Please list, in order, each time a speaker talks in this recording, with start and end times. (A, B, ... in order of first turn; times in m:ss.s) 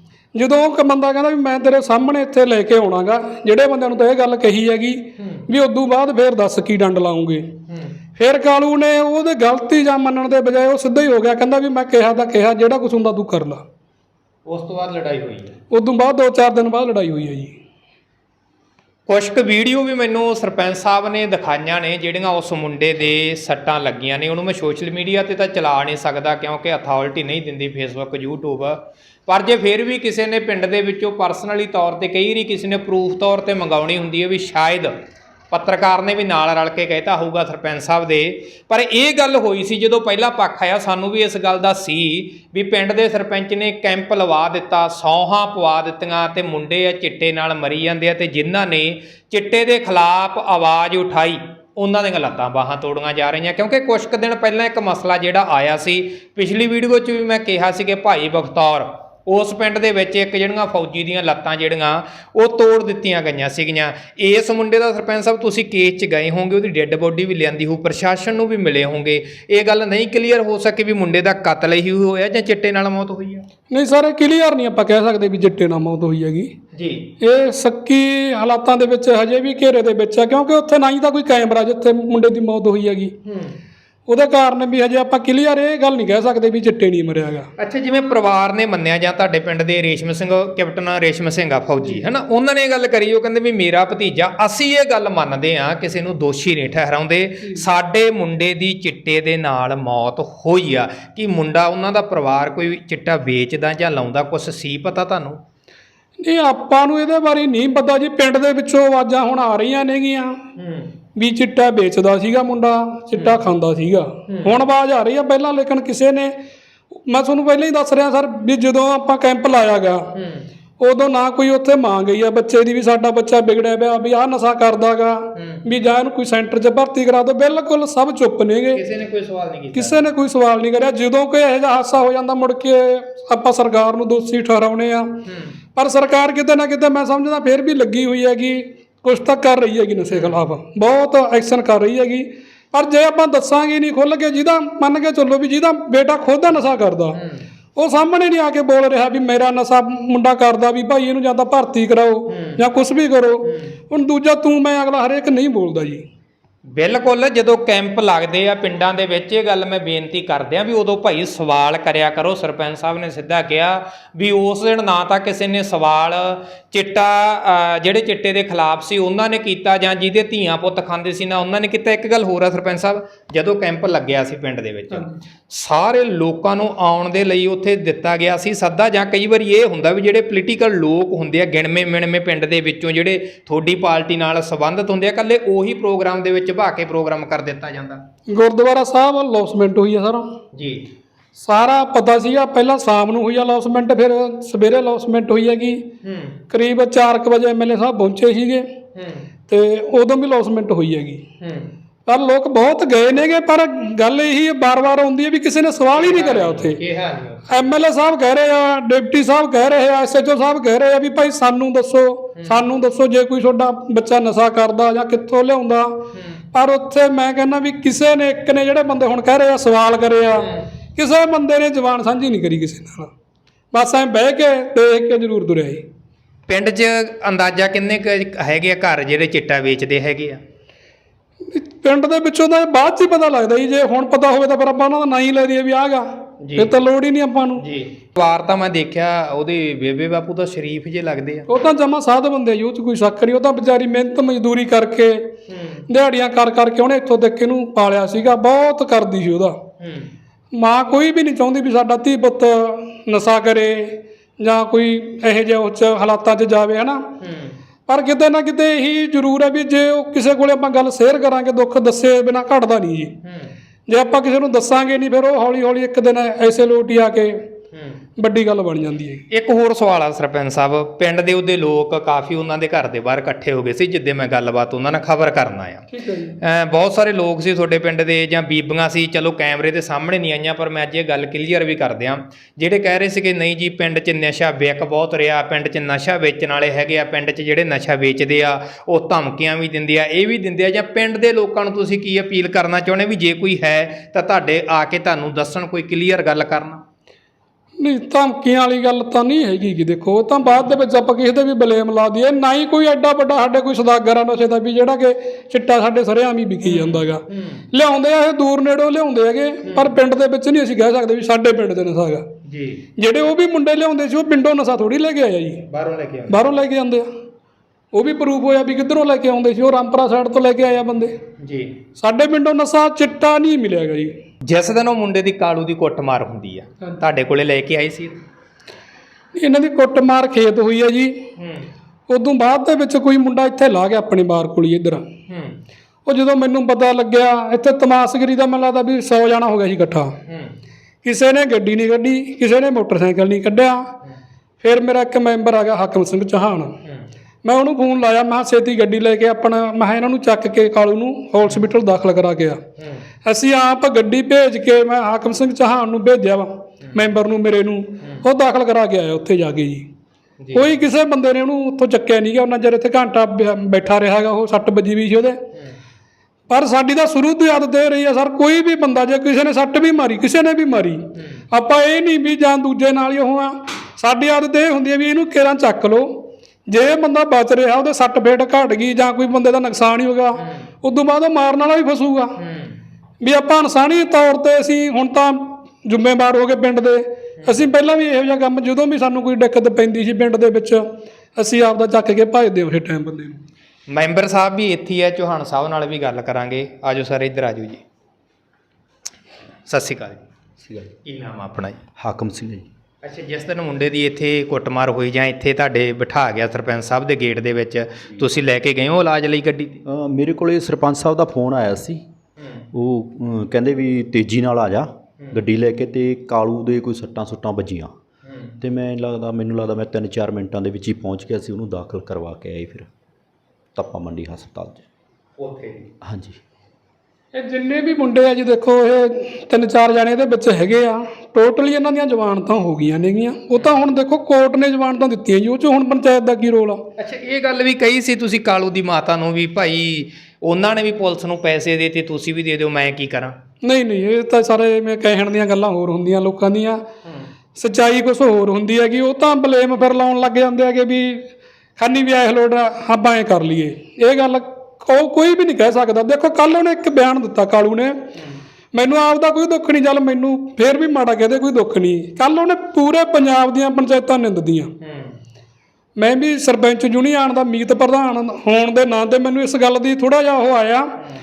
0:00.3-0:07.5 A
0:05.2-0:05.4 B
0:07.7-0:07.9 B
0:08.2-0:13.6 A
0:14.5-0:15.5 B
0:15.7-0:17.5 A
0:19.1-0:34.9 B
0:35.5-1:13.4 B
1:13.7-1:16.5 A
1:16.7-1:17.1 B
1:17.2-1:23.1 A
1:23.2-1:23.5 B
1:24.1-1:27.5 A
1:27.6-1:45.4 B
1:46.2-1:50.4 A
1:50.6-1:50.9 B
1:51.2-1:56.3 A
1:53.2-1:53.4 B
1:54.3-1:54.6 B
1:57.1-2:00.1 A
2:00.1-2:00.5 B
2:00.8-2:08.8 A
2:05.4-2:05.6 B
2:08.7-2:10.0 B
2:09.7-2:15.1 A
2:15.3-2:15.5 B
2:15.8-2:27.2 A
2:20.1-2:20.4 B
2:27.8-2:36.0 A
2:32.3-2:32.6 B
2:36.7-3:08.0 B
3:08.3-3:10.2 A
3:10.5-3:10.9 B
3:11.4-3:15.8 A
3:16.0-3:16.4 B
3:16.5-3:18.6 A
3:19.0-3:19.2 B
3:19.5-3:21.2 A
3:21.4-3:21.7 B
3:22.0-3:26.8 A
3:25.9-3:27.5 B
3:27.5-3:36.0 A
3:36.1-3:36.4 B
3:36.5-3:43.1 A
3:43.7-3:45.8 A
3:46.5-3:50.4 B
3:51.5-3:57.6 A
3:56.4-3:56.7 B
3:57.6-4:01.5 B
4:01.5-4:05.3 A
4:05.5-4:05.8 B
4:05.9-4:09.6 A
4:09.8-4:10.1 B
4:10.6-4:17.0 A
4:17.2-4:17.5 B
4:17.9-4:23.1 A
4:23.2-4:23.5 B
4:23.9-4:27.4 A
4:27.7-4:28.0 B
4:28.2-4:29.2 A
4:29.3-4:35.8 B
4:35.9-4:36.4 A
4:36.4-4:56.8 B
4:57.8-5:12.2 A
5:00.4-5:00.7 B
5:06.6-5:07.6 B
5:09.6-5:10.0 B
5:12.4-5:12.8 B
5:13.0-5:15.6 A
5:15.7-5:16.5 B
5:16.3-5:17.0 A
5:17.9-5:21.1 A
5:21.4-5:21.8 B
5:22.0-5:24.1 A
5:24.4-5:28.2 B
5:29.4-5:31.1 A
5:31.4-5:31.7 B
5:32.1-5:35.0 A
5:35.3-5:35.6 B
5:36.0-5:40.1 A
5:40.3-5:40.5 B
5:41.0-5:43.9 A
5:44.6-5:46.8 A
5:47.4-5:52.6 A
5:53.2-5:59.8 A
6:00.4-6:00.7 B
6:00.5-6:05.4 A
6:06.5-6:22.3 A
6:22.4-6:22.7 B
6:23.2-6:30.8 A
6:31.4-6:33.4 A
6:33.9-6:37.8 B
6:39.7-6:40.2 B
6:40.6-6:40.9 C
6:41.0-6:41.8 B
6:42.0-6:42.7 C
6:43.0-6:49.8 B
6:49.8-6:52.0 C
6:52.7-6:57.9 C
6:58.2-6:58.5 B
6:58.6-7:02.9 C
7:03.7-7:04.8 C
7:05.4-7:05.9 B
7:06.0-7:06.4 C
7:07.3-7:16.8 A
7:17.0-7:23.3 B
7:23.6-7:26.8 A
7:27.6-7:31.2 A
7:31.8-7:38.0 A
7:38.7-7:44.7 A
7:44.8-7:45.1 B
7:46.0-7:50.9 A